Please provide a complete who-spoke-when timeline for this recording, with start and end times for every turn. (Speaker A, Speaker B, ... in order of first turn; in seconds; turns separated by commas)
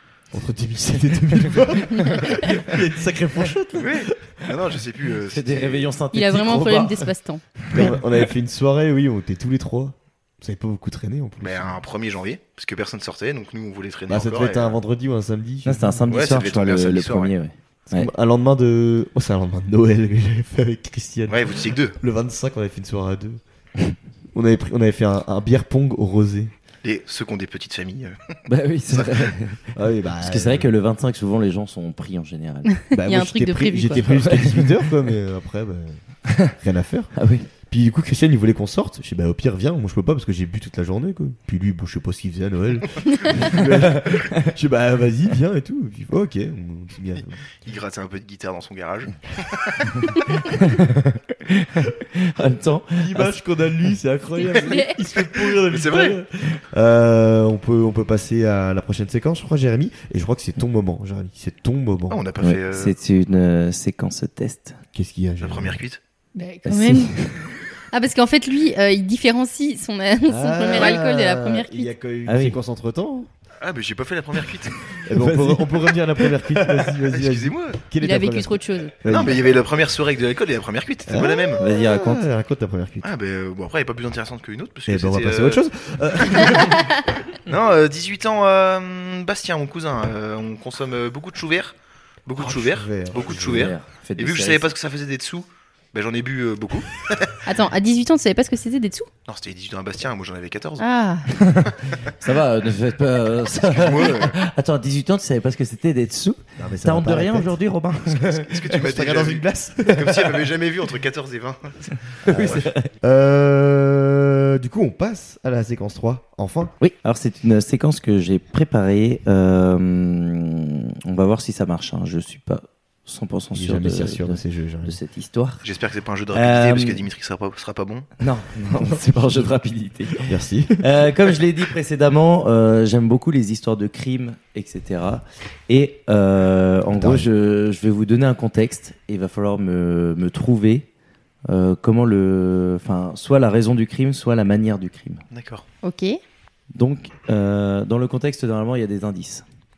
Speaker A: 0.3-4.2, Speaker B: 2.1-2.7, Speaker C: 3.8-5.9, Speaker B: 5.3-7.1, Speaker D: 6.1-7.4, Speaker B: 7.6-8.0, Speaker A: 7.7-11.8, Speaker C: 11.4-14.8, Speaker A: 14.1-16.0, Speaker B: 15.6-18.1, Speaker C: 16.1-17.3, Speaker A: 17.9-23.4, Speaker C: 21.3-22.0, Speaker A: 24.3-26.5, Speaker C: 26.8-28.4, Speaker B: 28.4-29.7, Speaker C: 28.9-29.3, Speaker A: 29.7-30.7, Speaker B: 30.2-32.7, Speaker D: 32.7-34.1, Speaker A: 32.9-37.1, Speaker B: 34.1-34.7, Speaker B: 37.1-37.5, Speaker A: 37.7-47.4, Speaker B: 43.9-44.5, Speaker C: 47.6-50.3, Speaker B: 50.5-53.3, Speaker A: 52.9-62.2, Speaker D: 54.4-55.0, Speaker C: 54.7-56.2, Speaker C: 62.1-62.9, Speaker B: 62.4-64.8, Speaker A: 64.9-65.8, Speaker C: 65.4-66.0, Speaker D: 66.3-67.1, Speaker B: 66.7-67.5, Speaker D: 67.9-71.9, Speaker A: 70.3-73.3, Speaker B: 72.2-72.6, Speaker C: 73.6-75.0, Speaker A: 75.0-79.4, Speaker B: 75.1-76.9, Speaker C: 77.1-77.8, Speaker D: 78.0-78.9, Speaker C: 79.1-81.6, Speaker A: 81.0-83.1, Speaker B: 81.6-82.2, Speaker C: 83.0-86.7, Speaker A: 84.9-86.9, Speaker C: 87.5-91.7, Speaker C: 92.2-97.4, Speaker A: 92.4-93.7, Speaker B: 93.3-94.7, Speaker D: 97.5-99.1, Speaker C: 99.3-100.8, Speaker D: 100.8-101.3, Speaker B: 101.3-108.8, Speaker C: 103.6-104.3, Speaker A: 106.6-107.5, Speaker C: 108.2-112.7, Speaker A: 108.8-110.2, Speaker B: 112.2-112.9, Speaker A: 112.2-116.7, Speaker B: 116.8-125.6, Speaker A: 123.5-125.0, Speaker C: 125.6-128.1, Speaker B: 126.3-127.0, Speaker B: 128.2-140.8, Speaker A: 130.2-130.9, Speaker A: 137.0-137.3, Speaker B: 141.5-145.2, Speaker C: 145.3-145.6, Speaker D: 145.8-146.2, Speaker B: 146.7-149.4